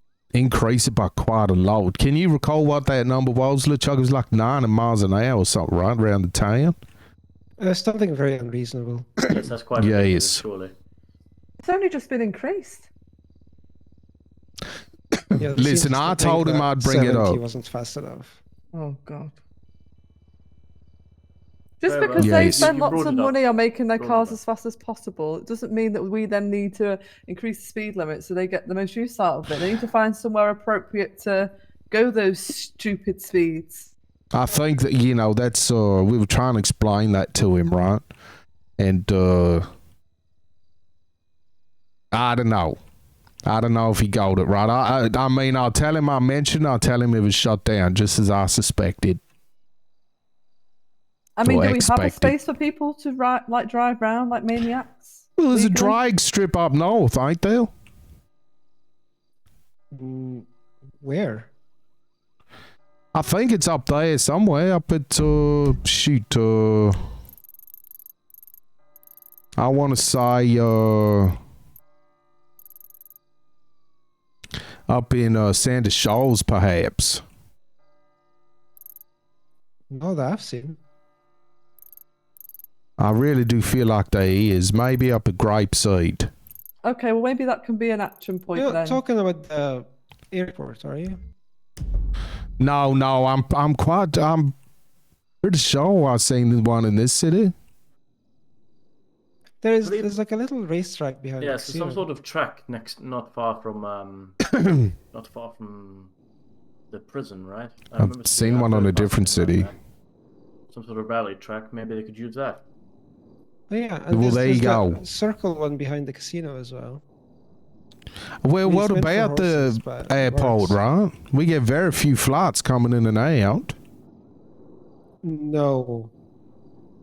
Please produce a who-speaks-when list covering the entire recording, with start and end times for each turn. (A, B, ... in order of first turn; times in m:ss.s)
0:00.3-0:06.8 A
0:07.6-0:09.1 B
0:09.3-0:10.7 C
0:09.8-0:10.4 A
0:11.6-0:12.8 D
0:15.3-0:17.4 A
0:15.4-0:18.4 B
0:18.7-0:19.4 D
0:21.8-0:33.9 D
0:21.8-0:24.4 C
0:22.2-0:22.8 A
0:34.3-0:38.0 A
0:38.8-0:39.6 A
0:42.1-0:42.8 A
0:43.4-0:49.2 A
0:51.4-0:56.0 D
0:51.4-0:52.3 A
0:55.4-0:57.7 A
0:59.9-1:00.4 B
1:01.0-1:01.5 B
1:03.1-1:07.0 A
1:09.6-1:11.3 A
1:14.9-1:17.2 A
1:19.9-1:20.8 B
1:23.0-1:26.3 A
1:26.8-1:29.0 D
1:28.5-1:31.2 B
1:32.6-1:34.6 A
1:35.4-1:37.5 A
1:39.6-1:42.0 B
1:39.8-1:40.2 C
1:41.4-1:46.1 C
1:46.9-1:49.8 C
1:48.0-1:49.7 A
1:50.7-1:52.6 C
1:53.7-1:57.0 B
1:54.1-1:55.0 A
1:58.4-2:03.8 A
1:58.6-2:00.8 B
2:05.2-2:06.1 B